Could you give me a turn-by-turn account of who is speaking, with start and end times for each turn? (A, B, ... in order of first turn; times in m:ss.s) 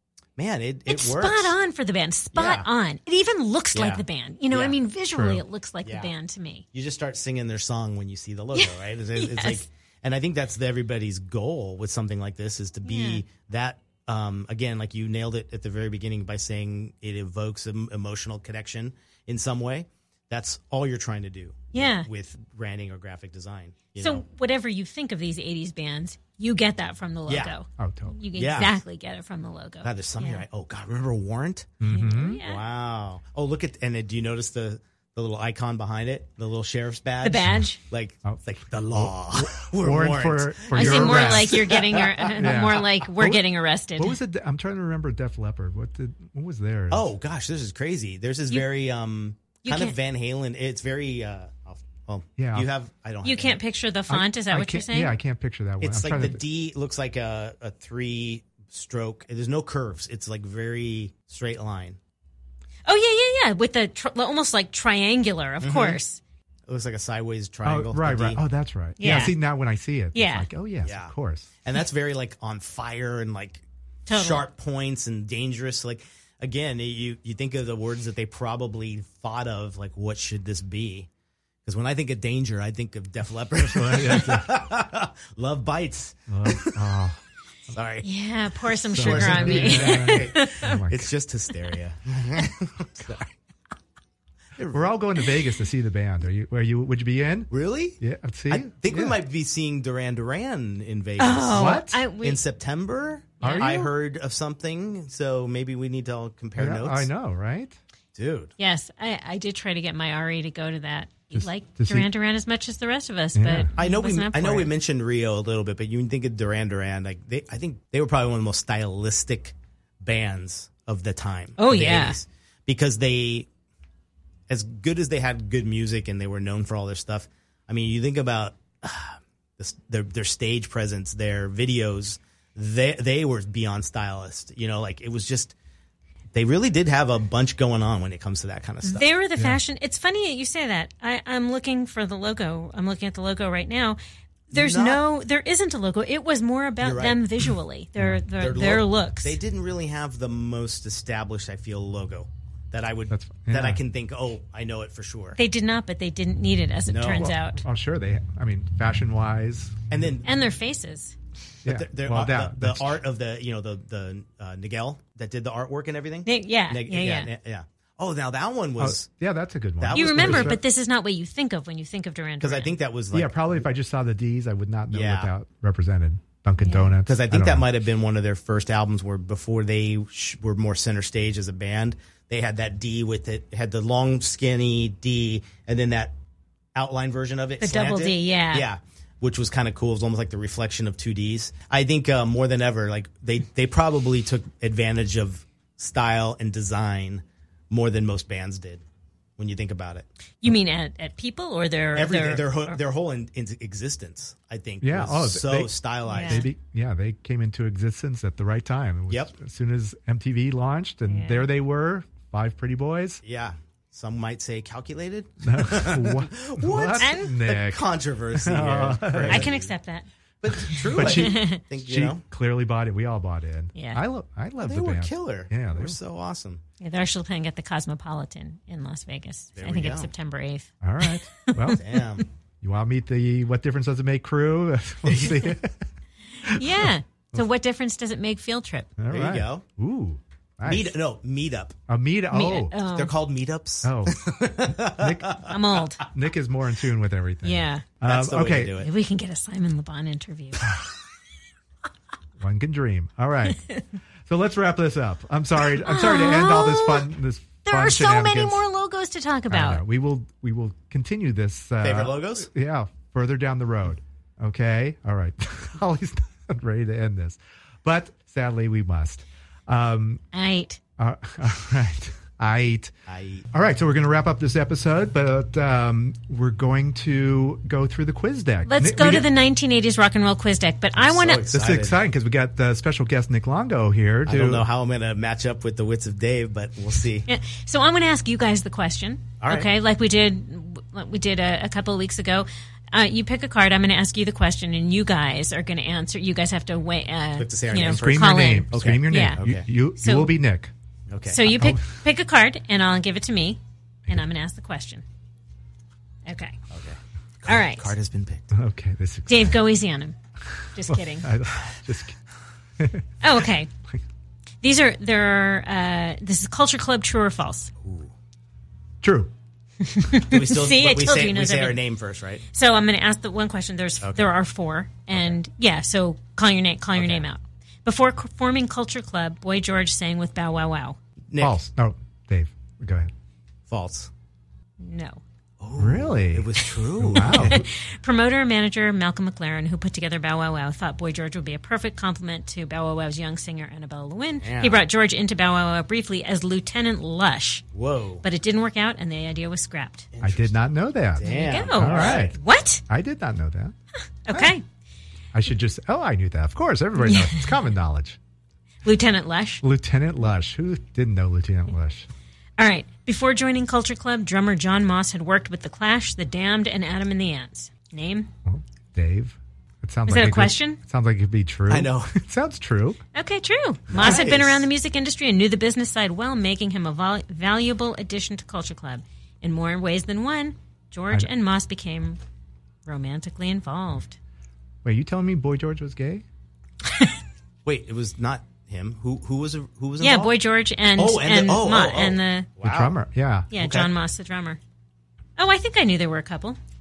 0:00.4-0:01.6 A
0:00.9-0:06.6 B
0:02.3-0:02.7 A
0:03.7-0:04.8 A
0:05.1-0:05.4 C
0:05.8-0:06.1 A
0:06.7-0:24.2 A
0:08.5-0:09.6 B
0:12.8-0:13.2 B
0:21.7-0:22.1 B
0:24.0-0:30.4 B
0:27.3-0:27.5 A
0:27.8-0:28.7 C
0:28.3-0:28.7 A
0:29.8-0:42.7 A
0:31.8-0:32.4 C
0:31.8-0:32.6 B
0:37.2-0:37.8 B
0:38.2-0:41.8 C
0:40.7-0:44.2 B
0:42.4-0:43.4 C
0:44.0-0:47.1 C
0:46.9-0:53.6 A
0:49.6-0:50.0 B
0:52.4-0:52.7 C
0:53.2-0:55.2 B
0:54.1-0:56.4 C
0:55.8-1:02.0 A
1:02.8-1:06.2 B
1:05.6-1:06.0 A
1:06.7-1:08.4 A
1:07.6-1:11.5 C
1:09.0-1:09.3 B
1:10.1-1:10.5 B
1:10.8-1:11.1 A
1:11.6-1:21.1 A
1:14.1-1:14.4 B
1:21.6-1:26.8 A
1:23.7-1:24.6 C
1:26.3-1:27.2 C
1:27.7-1:28.0 A
1:28.0-1:30.8 B
1:28.8-1:33.3 A
1:28.9-1:31.1 C
1:34.6-1:34.9 A
1:34.7-1:39.2 C
1:37.5-1:47.1 A
1:41.2-1:42.4 B
1:41.5-1:42.0 C
1:43.4-1:43.8 B
1:43.4-1:43.9 C
1:46.6-1:47.8 C
1:48.1-1:48.5 A
1:48.6-1:54.7 B
1:51.3-1:52.1 C
1:53.3-1:53.7 C
1:53.8-2:03.5 A
2:01.6-2:02.2 B
2:04.5-2:15.5 A
2:16.3-2:19.1 A
2:18.8-2:24.0 B
2:24.5-2:25.0 A
2:24.5-2:29.4 B
2:26.8-2:27.2 A
2:28.4-2:35.4 A
2:33.1-2:33.8 C
2:35.4-2:37.6 B
2:36.9-2:37.3 A
2:37.1-2:40.1 C
2:39.9-2:40.3 A
2:40.2-2:41.1 B
2:41.6-2:43.0 C
2:41.6-2:49.1 A
2:46.2-2:47.3 B
2:48.8-2:50.6 C
2:49.8-2:50.6 A
2:49.9-2:52.7 B
2:52.4-2:53.6 A
2:53.1-2:57.7 C
2:54.9-2:55.3 A
2:56.6-2:56.9 B
2:57.0-3:06.1 A
3:06.7-3:18.8 A
3:07.6-3:08.7 B
3:19.4-3:20.0 A
3:20.4-3:22.8 B
3:21.9-3:26.5 A
3:24.8-3:33.2 C
3:26.1-3:26.5 B
3:31.0-3:31.5 B
3:33.2-3:39.7 A
3:35.4-3:39.5 C
3:37.0-3:37.3 B
3:39.2-3:40.1 B
3:40.4-3:42.2 A
3:40.6-3:41.6 B
3:40.9-3:46.0 C
3:43.7-3:44.0 B
3:44.6-3:46.6 A
3:46.8-3:50.7 B
3:49.6-3:50.1 A
3:50.8-3:51.8 C
3:51.4-3:51.8 B
3:51.7-3:52.3 A
3:52.6-3:55.8 C
3:55.1-3:55.5 A
3:56.4-3:57.4 C
3:56.4-3:58.9 B
3:59.0-4:01.0 C
3:59.1-3:59.6 A
4:00.6-4:01.8 A
4:01.9-4:02.8 C
4:02.3-4:03.1 B
4:02.8-4:05.6 A
4:03.8-4:05.4 C
4:05.5-4:06.1 B
4:06.1-4:08.7 C
4:07.4-4:07.9 B
4:08.0-4:08.9 A
4:08.8-4:10.8 B
4:12.4-4:13.6 C
4:14.3-4:18.6 C
4:15.8-4:17.1 B
4:17.6-4:19.8 B
4:19.5-4:30.2 C
4:21.8-4:22.5 A
4:30.3-4:30.8 B
4:31.0-4:32.9 C
4:33.1-4:33.4 A
4:33.5-4:39.3 C
4:38.6-4:41.5 B
4:41.0-4:42.0 A
4:41.5-4:44.6 C
4:44.2-4:47.3 A
4:47.3-4:59.4 B
4:49.4-4:49.7 A
4:57.4-4:59.6 A
4:57.8-5:00.7 C
5:00.0-5:00.3 B
5:01.1-5:01.5 A
5:01.3-5:05.0 B
5:06.2-5:06.6 B
5:06.7-5:08.5 A
5:07.4-5:07.9 B
5:08.5-5:09.6 C
5:09.3-5:10.1 B
5:10.7-5:11.3 B
5:10.9-5:12.2 C
5:12.8-5:13.0 C
5:13.2-5:13.7 B
5:14.6-5:17.7 B
5:17.8-5:18.1 A
5:19.0-5:19.3 C
5:19.8-5:21.8 B
5:20.2-5:22.4 A
5:22.5-5:31.0 B
5:24.0-5:24.3 A
5:26.9-5:27.2 A
5:31.3-5:31.6 A
5:31.4-5:33.1 C
5:33.7-5:34.1 A
5:34.8-5:35.2 B
5:35.6-5:37.7 A
5:35.8-5:37.6 C
5:37.1-5:47.6 B
5:44.4-5:44.8 A
5:47.7-5:48.2 A
5:48.2-5:50.1 B
5:50.1-5:50.6 A
5:50.2-5:52.4 C
5:51.1-5:52.4 A
5:51.2-5:52.8 B
5:52.9-5:53.7 C
5:54.2-5:54.6 B
5:55.3-5:58.2 C
5:57.0-5:57.5 B
5:58.8-5:59.6 B
5:59.6-6:02.1 C
6:02.6-6:08.3 B
6:08.4-6:13.0 C
6:10.1-6:10.8 B
6:11.7-6:12.1 A
6:13.1-6:22.2 B
6:13.9-6:14.6 A
6:22.8-6:24.2 B
6:24.8-6:26.2 C
6:27.6-6:30.3 A
6:30.0-6:32.5 B
6:30.9-6:33.0 A
6:32.6-6:33.5 C
6:33.5-6:34.6 B
6:33.6-6:33.9 A
6:35.4-6:36.6 B